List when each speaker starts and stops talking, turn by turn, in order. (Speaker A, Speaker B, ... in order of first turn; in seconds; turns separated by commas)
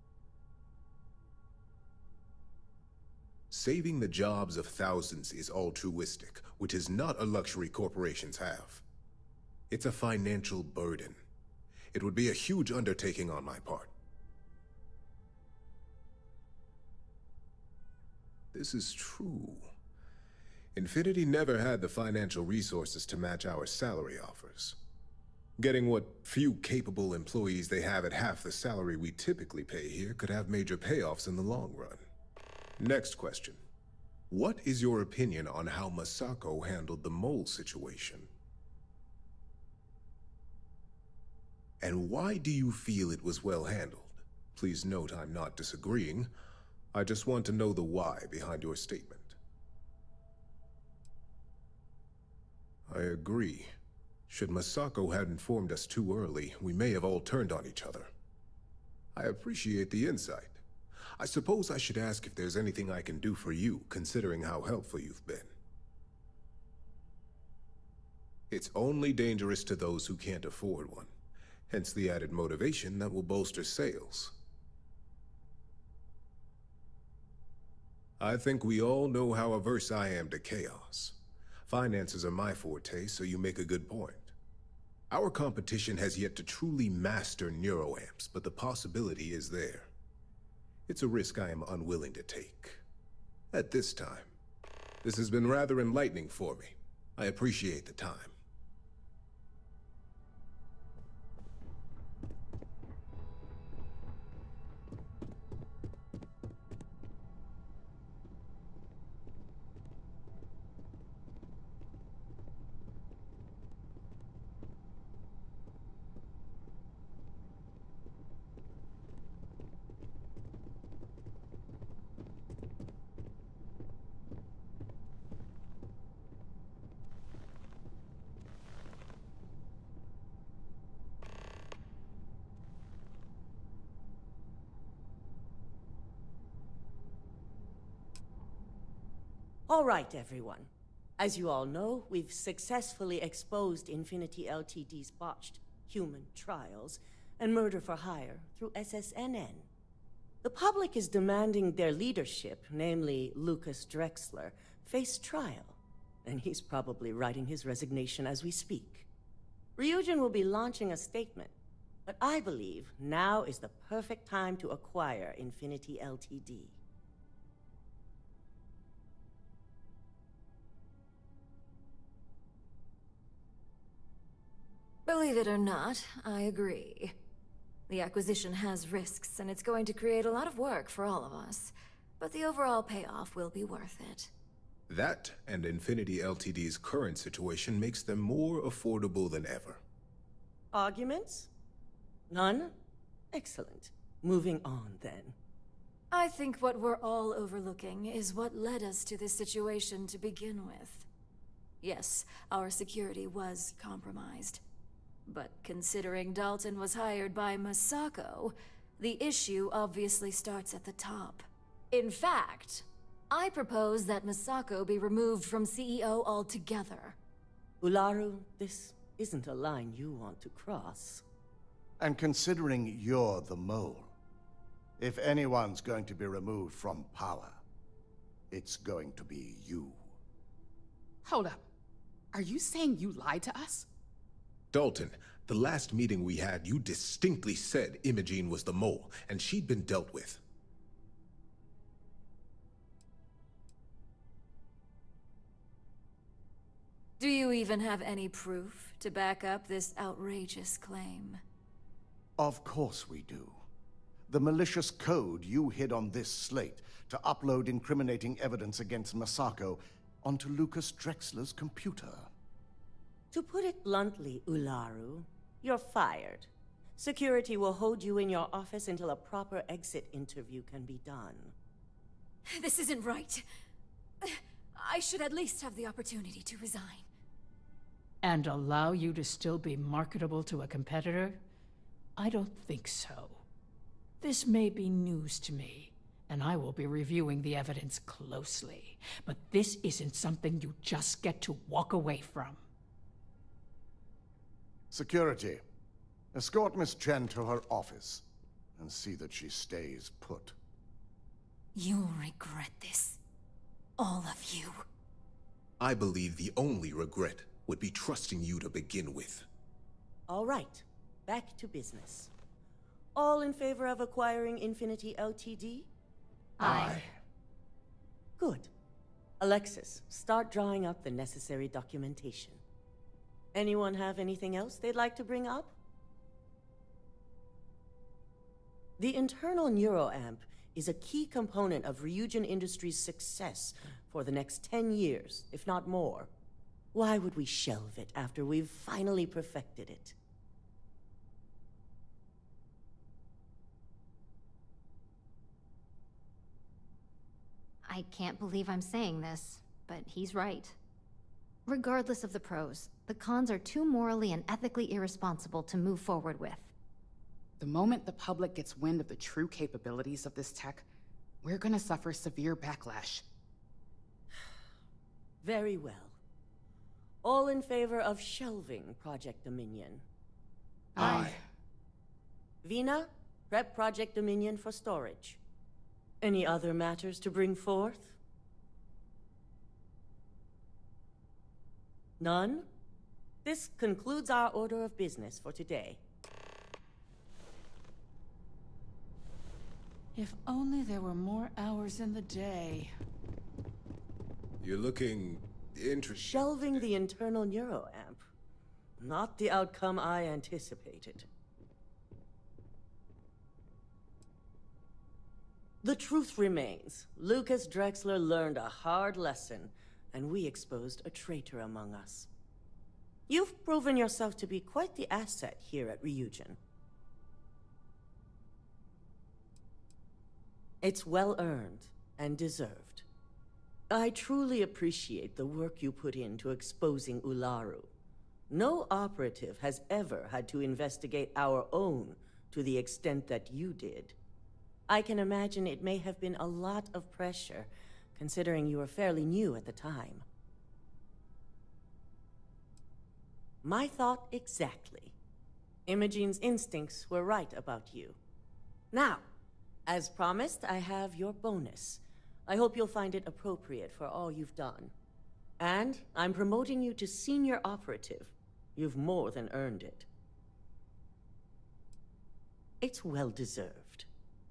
Speaker A: 3.5-8.8, Speaker A: 9.7-11.2, Speaker A: 11.9-13.9, Speaker A: 18.5-19.7, Speaker A: 20.7-24.8, Speaker A: 25.6-32.0, Speaker A: 32.8-33.6, Speaker A: 34.3-38.3, Speaker A: 41.8-46.3, Speaker A: 46.9-49.4, Speaker A: 52.9-53.7, Speaker A: 54.3-58.1, Speaker A: 59.1-60.6, Speaker A: 61.2-65.5, Speaker A: 68.5-71.1, Speaker A: 71.7-74.3, Speaker A: 78.2-81.2, Speaker A: 81.7-84.3, Speaker A: 85.1-89.9, Speaker A: 90.9-92.8, Speaker A: 93.5-94.3, Speaker A: 95.0-98.3, Speaker B: 139.7-149.7, Speaker B: 150.4-159.1, Speaker B: 159.8-161.5, Speaker B: 162.1-166.8, Speaker C: 175.1-177.2, Speaker C: 177.9-184.3, Speaker A: 184.9-189.8, Speaker B: 190.7-191.5, Speaker B: 192.3-192.7, Speaker B: 193.3-195.3, Speaker C: 196.1-201.1, Speaker C: 201.8-204.6, Speaker C: 205.2-217.2, Speaker B: 217.8-221.2, Speaker D: 222.0-224.1, Speaker D: 225.0-227.6, Speaker D: 228.5-230.2, Speaker E: 231.2-231.6, Speaker E: 232.3-233.9, Speaker A: 234.7-240.4, Speaker C: 247.2-251.4, Speaker D: 252.4-253.6, Speaker D: 254.3-262.3, Speaker B: 263.3-271.5, Speaker C: 272.5-273.4, Speaker C: 274.2-277.1, Speaker F: 278.2-281.4, Speaker F: 282.2-283.4, Speaker F: 284.2-292.6, Speaker D: 294.9-295.6, Speaker D: 296.3-300.6, Speaker C: 301.7-303.2, Speaker C: 304.0-304.8, Speaker A: 305.8-309.5, Speaker B: 310.3-312.3, Speaker B: 313.1-315.9, Speaker G: 316.6-317.0, Speaker A: 316.6-317.0, Speaker B: 316.6-316.9, Speaker B: 318.4-318.7, Speaker B: 319.4-322.6, Speaker B: 323.5-325.7, Speaker B: 329.0-336.3, Speaker B: 336.9-340.1, Speaker G: 347.9-350.8, Speaker G: 351.7-356.7, Speaker E: 357.6-360.9, Speaker E: 361.4-363.2, Speaker B: 365.4-366.1, Speaker B: 367.2-370.0, Speaker E: 371.0-371.4, Speaker B: 372.6-375.4, Speaker B: 376.2-378.1, Speaker B: 382.2-382.6, Speaker B: 383.4-386.0, Speaker F: 390.1-392.9, Speaker A: 394.6-396.9, Speaker B: 396.1-398.2, Speaker B: 399.0-401.3, Speaker B: 405.8-412.3, Speaker B: 413.3-416.6, Speaker B: 420.8-423.0, Speaker B: 423.9-427.9, Speaker B: 428.5-434.1, Speaker B: 434.9-440.2, Speaker B: 443.6-445.1, Speaker B: 445.9-448.2, Speaker B: 448.9-449.2, Speaker B: 449.9-454.9, Speaker B: 455.6-460.1, Speaker B: 462.8-464.1